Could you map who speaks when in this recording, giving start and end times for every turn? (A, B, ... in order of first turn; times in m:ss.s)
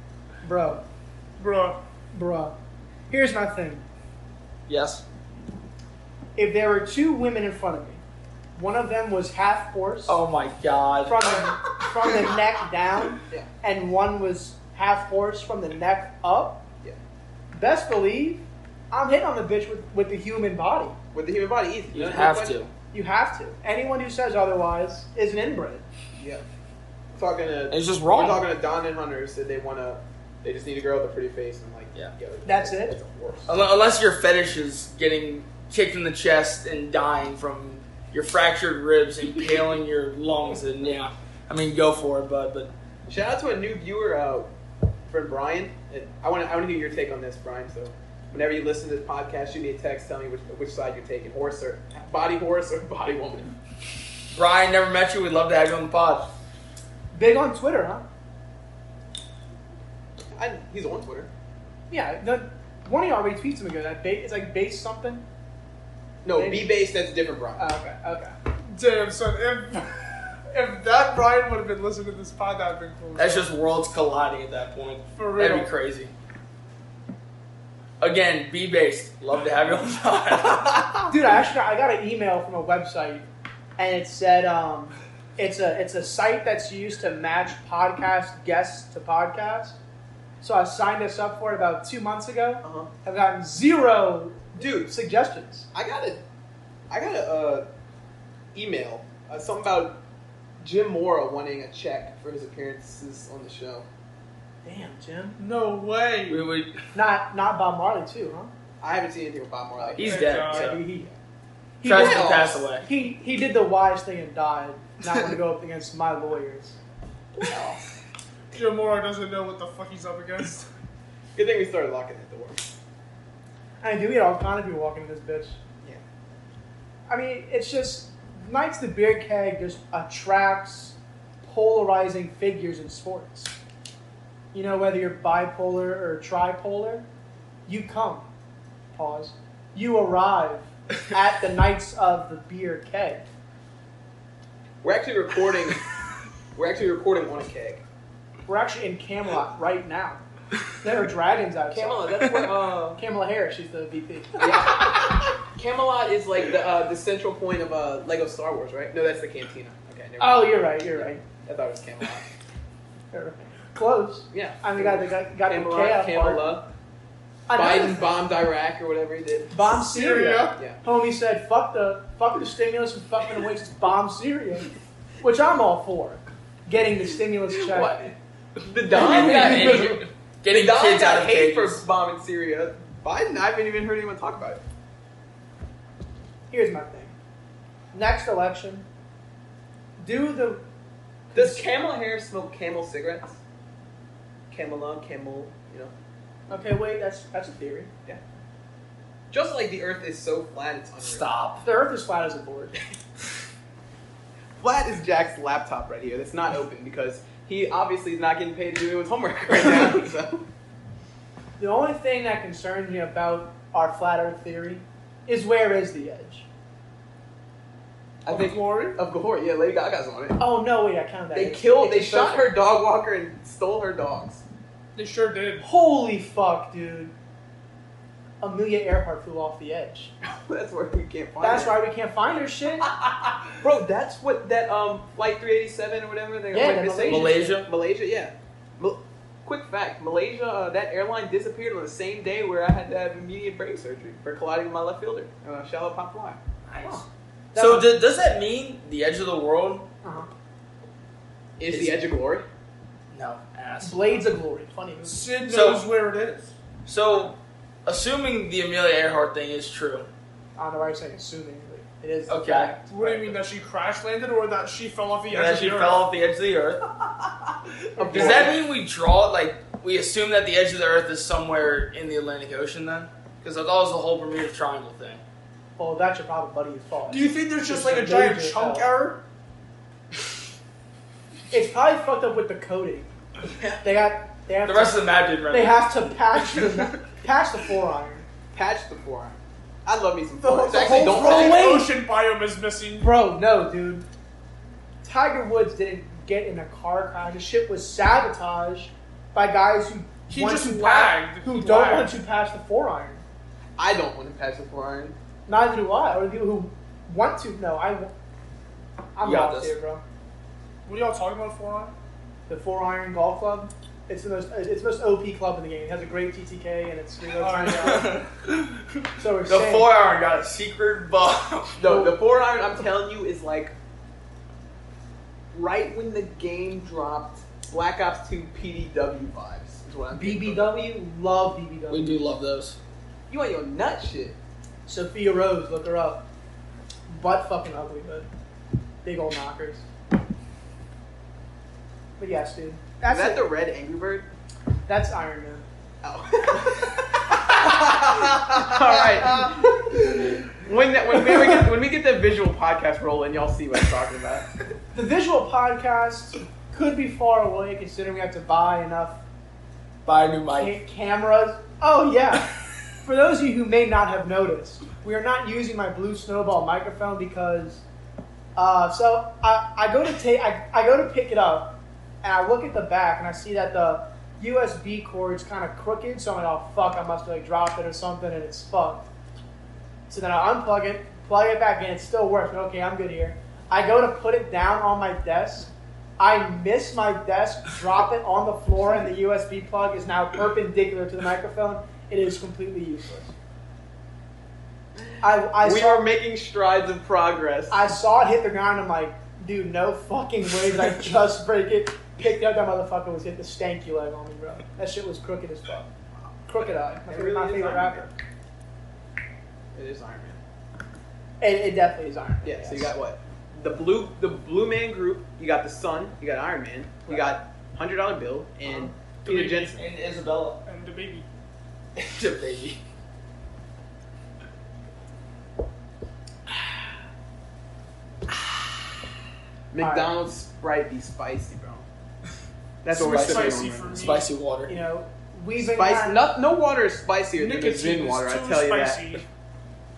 0:00.4-0:00.8 A
0:01.4-0:01.8 B
0:02.1-0:02.5 A
0:03.1-0:03.8 A
0:04.7-0:05.0 C
0:06.4-0:08.0 A
0:08.6-0:10.2 A
0:10.1-0:11.4 C
0:11.0-0:16.6 A
0:17.5-0:21.0 A
0:21.1-0:22.6 D
0:21.9-0:22.7 C
0:22.9-0:25.8 A
0:27.2-0:33.6 D
0:27.7-0:28.4 C
0:32.4-0:33.0 A
0:33.5-0:42.7 C
0:43.1-0:44.5 D
0:45.1-0:53.5 D
0:54.3-0:56.3 C
0:57.1-0:58.0 A
1:00.3-1:01.3 D
1:01.9-1:05.2 A
1:06.2-1:07.6 D
1:06.3-1:06.7 A
1:07.6-1:08.3 A
1:08.6-1:13.5 B
1:13.2-1:16.1 C
1:15.2-1:15.7 B
1:18.0-1:21.0 C
1:21.1-1:23.2 A
1:23.8-1:29.8 A
1:30.4-1:35.7 A
1:32.6-1:32.9 D
1:34.6-1:34.9 D
1:35.7-1:36.2 D
1:36.9-1:37.6 D
1:38.5-1:40.0 D
1:40.6-1:43.8 D
1:44.6-1:45.4 A
1:45.4-1:46.5 B
1:46.3-1:46.8 C
1:46.9-1:48.5 A
1:48.8-1:50.4 D
1:49.8-1:51.1 A
1:50.0-1:50.8 C
1:50.0-1:50.8 B
1:51.8-1:56.8 A
1:51.8-1:52.8 C
1:51.9-1:52.7 D
1:58.5-2:00.6 B
2:01.3-2:02.7 D
2:03.8-2:05.6 A
2:07.1-2:13.5 A
2:14.5-2:17.0 A
2:17.7-2:18.2 A
2:18.9-2:23.2 A
2:24.8-2:25.8 D
2:26.5-2:27.8 D
2:28.5-2:30.2 A
2:30.8-2:34.8 A
2:31.7-2:33.0 D
2:34.4-2:40.8 D
2:40.2-2:41.2 A
2:41.4-2:42.3 D
2:43.1-2:46.5 A
2:44.3-2:46.6 D
2:47.5-2:48.0 A
2:47.5-2:49.6 D
2:49.5-2:58.1 A
2:49.7-2:50.6 B
2:57.5-3:04.6 D
2:58.9-3:01.8 C
2:58.9-3:00.0 A
3:06.5-3:07.1 A
3:07.9-3:08.8 A
3:10.0-3:10.6 A
3:11.3-3:11.6 A
3:11.3-3:13.4 D
3:14.5-3:15.9 D
3:16.5-3:17.9 A
3:19.3-3:21.3 D
3:21.0-3:21.6 C
3:21.6-3:22.8 A
3:24.6-3:30.4 D
3:31.6-3:36.4 A
3:38.2-3:40.4 D
3:38.3-3:39.0 B
3:40.4-3:42.5 A
3:41.3-3:44.4 D
3:45.0-3:45.7 B
3:45.6-3:47.1 A
3:48.4-3:50.1 A
3:50.2-3:51.8 D
3:51.4-3:52.9 A
3:52.8-4:06.4 D
3:56.5-3:57.6 A
3:57.0-3:57.7 C
4:06.7-4:07.0 C
4:06.8-4:07.9 A
4:07.5-4:09.8 C
4:10.0-4:10.3 A
4:11.6-4:12.4 D
4:11.6-4:12.0 C
4:13.1-4:14.2 C
4:13.8-4:15.3 A
4:15.0-4:16.5 B
4:15.4-4:15.9 C
4:16.8-4:20.1 C
4:20.6-4:23.3 A
4:22.3-4:22.7 C
4:22.9-4:26.0 B
4:25.3-4:26.9 C
4:28.0-4:28.5 A
4:28.0-4:28.6 D
4:28.1-4:35.2 C
4:35.8-4:38.9 A
4:37.1-4:39.2 B
4:41.5-4:43.1 A
4:43.8-4:48.2 A
4:44.6-4:46.8 C
4:48.5-4:51.8 D
4:50.4-4:51.9 A
4:50.7-4:53.2 B
4:53.0-4:54.0 A
4:55.0-5:03.2 A
5:00.3-5:02.1 B
5:03.8-5:05.1 D
5:05.5-5:08.1 A
5:09.2-5:10.0 A
5:09.2-5:09.7 C
5:10.8-5:11.9 B
5:12.5-5:18.2 A
5:17.4-5:18.1 B
5:17.7-5:22.0 C
5:19.2-5:19.9 A
5:21.8-5:23.7 D
5:25.5-5:30.8 D
5:30.1-5:32.3 A
5:31.9-5:32.8 C
5:33.3-5:34.4 D
5:34.9-5:36.2 A
5:37.1-5:38.3 A
5:39.0-5:39.8 A
5:42.2-5:43.4 A
5:43.1-5:44.3 D
5:44.9-5:45.6 A
5:46.0-5:54.5 D
5:54.9-5:59.2 A
6:00.0-6:00.8 C
6:00.5-6:07.8 A
6:08.6-6:19.1 A
6:20.1-6:33.3 A
6:35.2-6:36.1 A
6:35.6-6:37.9 D
6:37.7-6:45.9 A
6:46.5-6:48.1 A
6:47.0-6:48.1 D
6:49.7-6:50.4 D
6:51.4-6:52.9 A
6:52.4-6:59.8 D
6:59.2-7:00.6 C
7:00.6-7:01.2 B
7:02.0-7:02.8 C
7:09.7-7:11.8 D
7:09.8-7:10.1 A
7:12.8-7:14.1 D
7:12.9-7:14.3 B
7:13.0-7:14.7 C
7:14.7-7:16.3 A
7:15.6-7:19.2 D
7:17.4-7:19.2 B